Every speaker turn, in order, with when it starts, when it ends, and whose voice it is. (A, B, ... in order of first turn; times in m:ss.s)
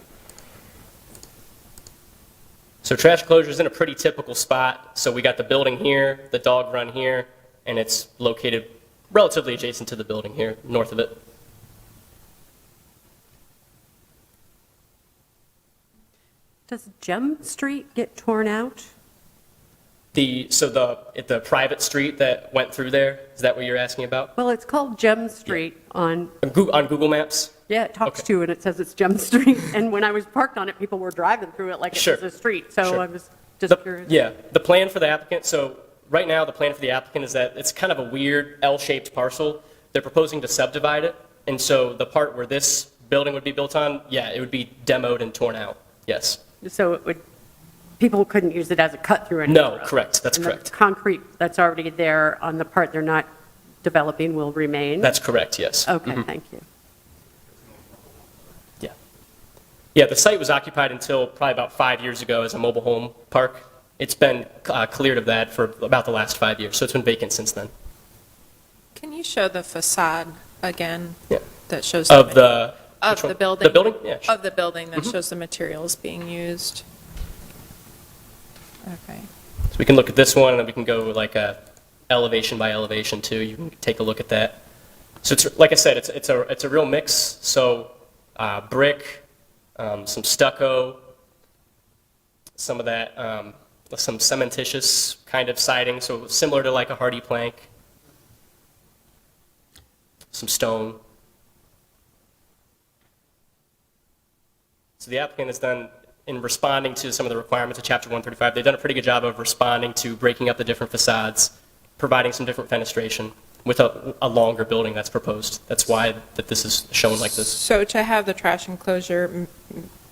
0:02.8-0:11.2 A
0:16.7-0:18.9 B
0:20.1-0:24.3 A
0:24.4-0:26.3 B
0:26.4-0:28.3 A
0:27.7-0:34.1 B
0:31.9-0:32.2 A
0:32.8-0:33.0 A
0:33.7-0:46.4 A
0:46.6-0:47.2 B
0:48.0-0:53.3 B
0:49.5-0:50.7 A
0:53.8-0:55.2 B
0:55.0-0:56.3 A
0:55.9-0:56.6 B
1:00.0-1:07.7 A
1:09.0-1:11.2 C
1:11.7-1:12.5 C
1:12.1-1:14.3 A
1:13.0-1:16.8 C
1:18.9-1:19.2 C
1:19.7-1:21.6 A
1:22.1-1:24.6 A
1:25.2-1:29.2 A
1:29.8-1:31.0 A
1:32.6-1:37.7 A
1:40.3-1:41.0 A
1:45.0-1:57.6 A
1:57.5-1:59.8 C